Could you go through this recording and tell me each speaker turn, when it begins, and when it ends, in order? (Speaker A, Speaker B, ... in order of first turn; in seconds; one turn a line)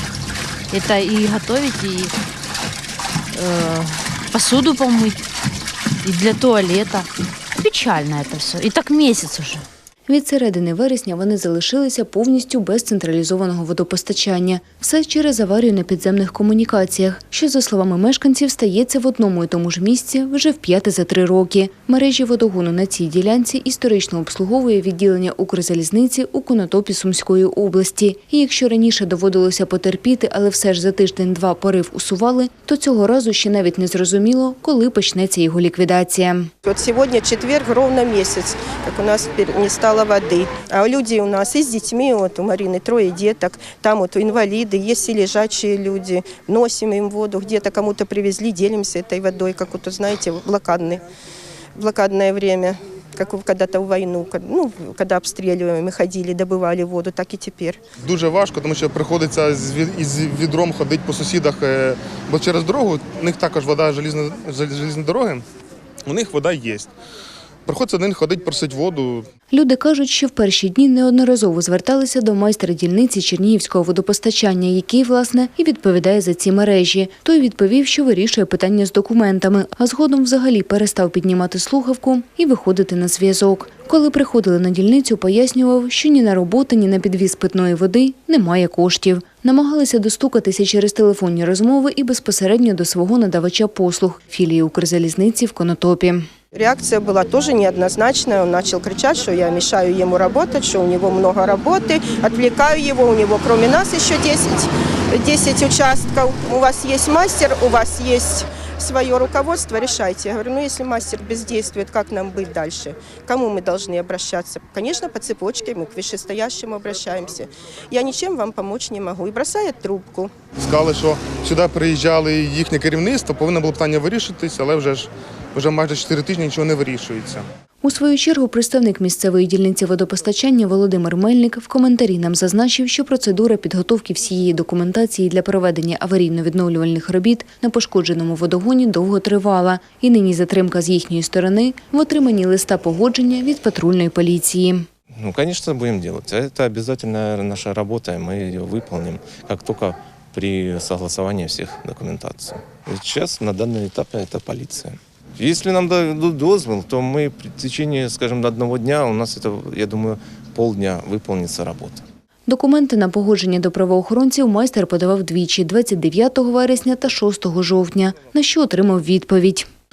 Speaker A: 0.7-2.1
Speaker A: 3.3-5.2
Speaker A: 6.0-9.7
Speaker B: 10.1-36.5
Speaker C: 36.6-51.0
Speaker C: 51.8-57.8
Speaker D: 58.0-65.4
Speaker D: 66.0-66.9
Speaker D: 67.7-69.3
Speaker B: 69.5-96.3
Speaker C: 96.5-120.3
Speaker D: 120.6-127.5
Speaker B: 127.8-144.8
Speaker E: 145.2-162.0
Speaker B: 162.5-169.7